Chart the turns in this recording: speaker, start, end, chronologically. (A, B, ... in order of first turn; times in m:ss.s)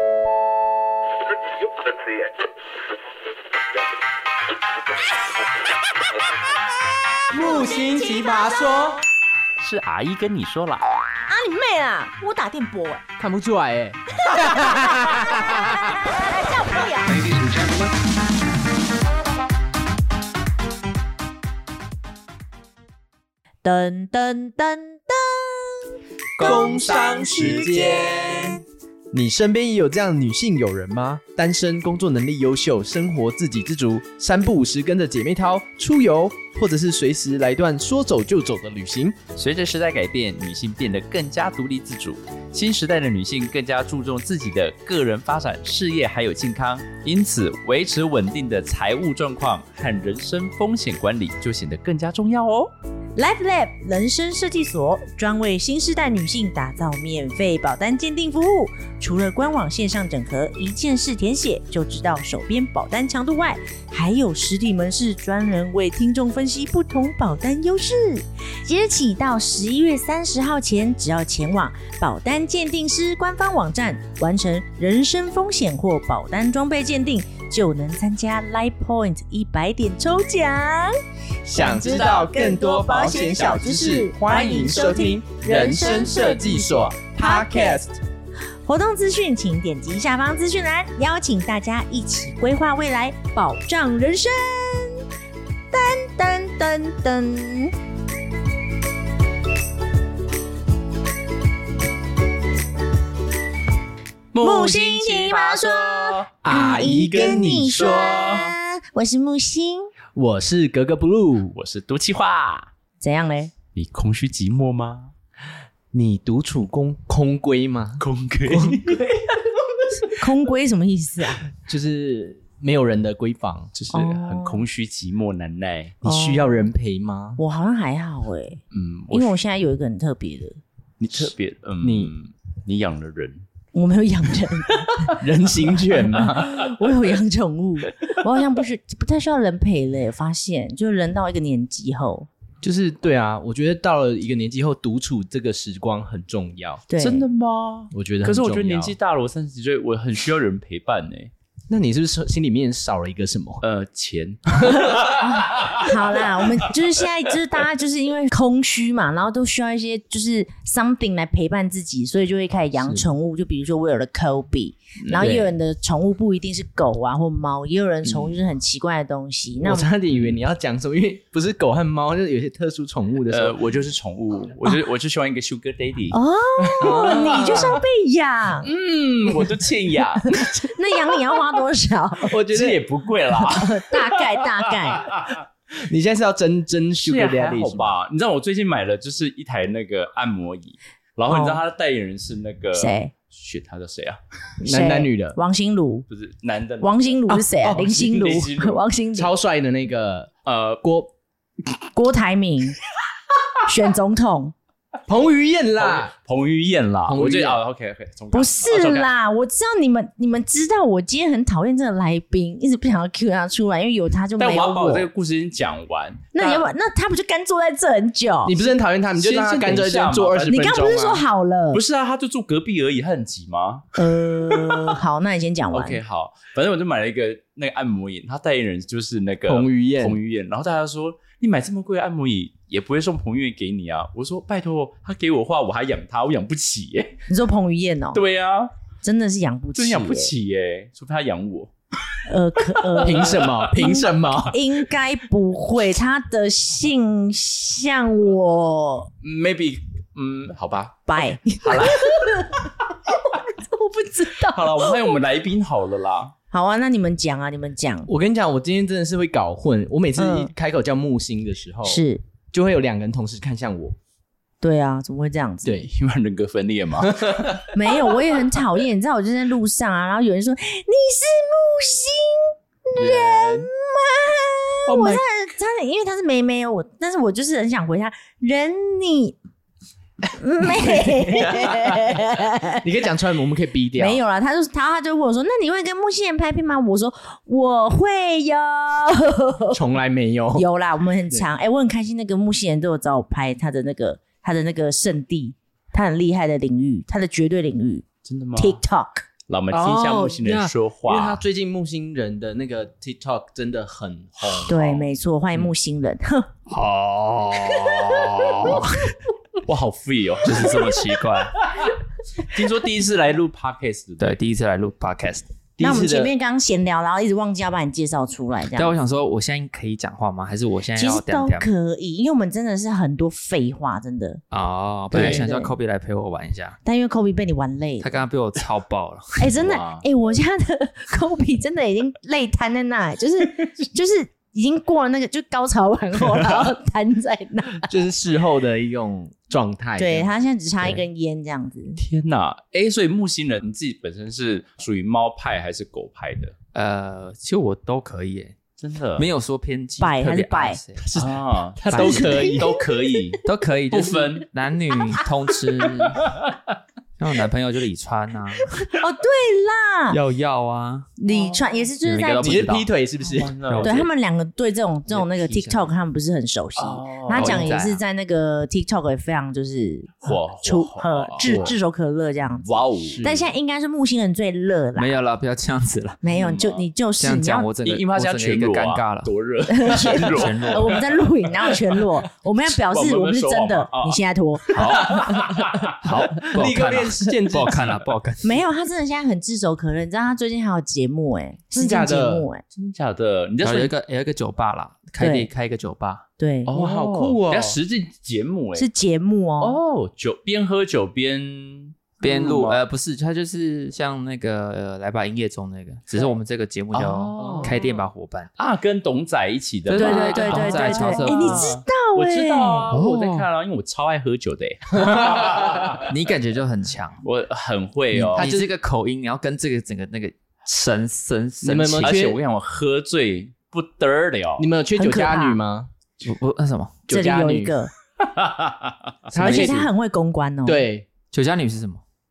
0:07.3-0:09.0 A
0:07.3-0:09.0 B
0:09.6-0:10.9 C
0:11.3-0:13.0 A
0:13.2-0:15.6 B
0:14.2-0:17.5 A
0:23.6-0:25.8 A
0:26.4-0:28.6 B
0:26.4-0:28.5 A
0:29.1-0:39.2 B
0:39.4-0:52.7 C
0:53.2-1:21.0 A
1:21.5-1:27.9 B
1:21.5-1:27.8 A
1:28.6-1:35.0 A
1:35.7-1:37.8 A
1:44.3-1:46.3 C
1:44.4-1:49.9 A
1:46.4-1:48.2 B
1:48.0-1:48.5 C
1:50.2-1:51.6 B
1:51.5-1:52.7 C
1:53.0-1:53.5 A
1:53.8-1:55.1 C
1:55.9-1:59.1 B
1:58.0-1:59.1 C
2:00.1-2:01.5 A
2:01.7-2:03.7 B
2:03.7-2:06.0 C
2:03.9-2:04.6 A
2:06.0-2:07.4 B
2:06.0-2:06.7 A
2:07.4-2:10.6 A
2:08.7-2:09.4 C
2:11.0-2:13.4 C
2:11.8-2:12.1 B
2:13.7-2:15.2 A
2:15.1-2:16.6 B
2:15.9-2:22.3 A
2:16.2-2:16.7 C
2:22.6-2:26.8 B
2:26.9-2:27.3 A
2:27.0-2:31.3 C
2:27.9-2:29.0 B
2:31.7-2:33.6 B
2:33.6-2:35.9 C
2:34.6-2:34.9 B
2:34.9-2:49.9 A
2:45.0-2:45.5 C
2:49.6-2:53.6 B
2:53.3-2:56.2 C
2:56.1-2:58.7 A
2:56.6-2:57.8 B
2:56.9-2:57.8 C
2:58.7-3:00.4 C
2:58.8-2:59.6 B
3:00.3-3:02.4 A
3:02.2-3:02.8 B
3:02.5-3:05.4 C
3:03.4-3:05.1 A
3:05.8-3:07.9 B
3:07.0-3:14.2 C
3:11.3-3:11.6 A
3:12.8-3:13.1 A
3:14.6-3:16.1 A
3:14.6-3:15.4 B
3:16.1-3:18.8 C
3:16.8-3:19.3 A
3:17.3-3:17.9 B
3:19.2-3:21.1 B
3:20.5-3:20.8 C
3:21.9-3:22.8 A
3:23.7-3:24.6 A
3:25.1-3:26.1 B
3:25.8-3:29.1 C
3:27.1-3:27.6 B
3:28.3-3:35.1 A
3:34.4-3:36.7 C
3:36.3-3:38.6 A
3:38.4-3:41.2 B
3:39.1-3:40.8 C
3:40.5-3:41.8 A
3:41.7-3:43.9 C
3:44.0-3:46.0 A
3:44.5-3:45.0 C
3:45.7-3:57.2 C
3:49.4-3:50.2 B
3:57.3-3:58.2 A
3:58.1-3:58.7 C
3:59.0-4:00.3 A
3:59.8-4:01.7 C
4:02.3-4:09.1 A
4:02.9-4:03.5 C
4:03.0-4:04.6 B
4:09.2-4:12.7 C
4:11.1-4:12.7 A
4:13.3-4:15.0 A
4:14.3-4:16.3 C
4:16.5-4:18.1 A
4:18.1-4:24.0 B
4:20.2-4:20.5 A
4:21.8-4:22.2 A
4:24.6-4:25.8 A
4:25.6-4:25.9 B
4:25.8-4:27.7 C
4:27.0-4:27.7 B
4:27.7-4:39.4 A
4:33.0-4:33.7 B
4:40.4-4:42.8 A
4:40.6-4:42.2 B
4:42.8-4:44.2 B
4:44.0-4:49.8 A
4:49.7-4:50.7 B
4:50.6-4:58.0 A
4:58.2-4:58.8 C
4:58.6-4:59.2 A
4:59.5-5:01.4 C
4:59.7-5:05.0 B
5:04.5-5:04.9 C
5:04.7-5:06.5 A
5:06.7-5:09.2 D
5:09.7-5:14.4 C
5:10.4-5:11.6 D
5:14.2-5:15.5 D
5:15.8-5:16.3 C
5:15.8-5:19.0 A
5:15.8-5:16.1 B
5:18.7-5:21.7 D
5:21.0-5:24.4 A
5:24.5-5:26.8 D
5:25.1-5:25.8 A
5:25.2-5:25.4 B
5:26.8-5:28.2 A
5:28.0-5:29.6 D
5:29.4-5:37.9 A
5:29.6-5:30.0 C
5:37.9-5:40.3 B
5:40.0-5:42.0 A
5:42.0-5:46.5 C
5:46.7-5:48.6 D
5:48.8-5:49.3 C
5:49.2-5:51.0 D
5:50.0-5:50.8 A
5:51.0-5:52.8 B
5:51.2-5:54.5 C
5:51.9-5:52.4 D
5:52.0-5:53.0 A
5:53.4-5:56.4 D
5:56.0-5:56.5 C
5:57.2-5:58.9 D
5:58.9-6:00.2 A
6:00.1-6:01.1 D
6:01.2-6:02.7 A
6:01.3-6:01.8 C
6:02.0-6:02.9 D
6:02.4-6:03.6 B
6:03.3-6:04.1 C
6:03.7-6:04.0 D
6:03.8-6:15.1 A
6:05.1-6:05.9 B
6:06.8-6:07.7 C
6:07.3-6:08.0 D
6:10.2-6:11.7 C
6:12.7-6:13.2 C
6:13.0-6:13.5 B
6:15.0-6:16.2 D
6:16.2-6:17.7 A
6:16.3-6:16.9 C
6:17.2-6:19.3 D
6:17.8-6:22.0 C
6:19.7-6:25.6 A
6:20.0-6:21.2 D
6:22.7-6:24.2 C
6:24.7-6:25.9 C
6:24.9-6:25.3 D
6:26.0-6:28.6 D
6:26.4-6:28.0 B
6:28.4-6:32.6 A
6:31.7-6:32.5 B
6:32.7-6:33.9 C
6:33.6-6:36.3 D
6:35.2-6:35.5 A
6:36.4-6:36.7 A
6:36.7-6:38.9 C
6:36.7-6:37.8 B
6:38.8-6:39.8 A
6:39.6-6:42.8 C
6:42.2-6:48.5 D
6:46.9-6:47.8 C
6:47.4-6:47.8 B
6:48.6-6:56.0 C
6:49.9-6:51.7 D
6:49.9-6:52.9 A
6:52.9-6:53.5 D
6:55.0-6:56.0 B
6:56.0-6:57.2 D
6:57.2-6:58.5 C
6:58.1-7:02.2 D
6:58.4-6:58.7 B
7:01.6-7:02.4 B
7:02.0-7:04.7 C
7:04.6-7:05.9 B
7:05.0-7:05.6 A
7:06.2-7:07.0 D
7:07.1-7:07.8 B
7:07.1-7:07.9 A
7:08.2-7:09.3 C
7:09.3-7:09.9 B
7:09.4-7:10.8 A
7:09.4-7:09.8 D
7:10.6-7:11.1 B
7:11.3-7:12.0 D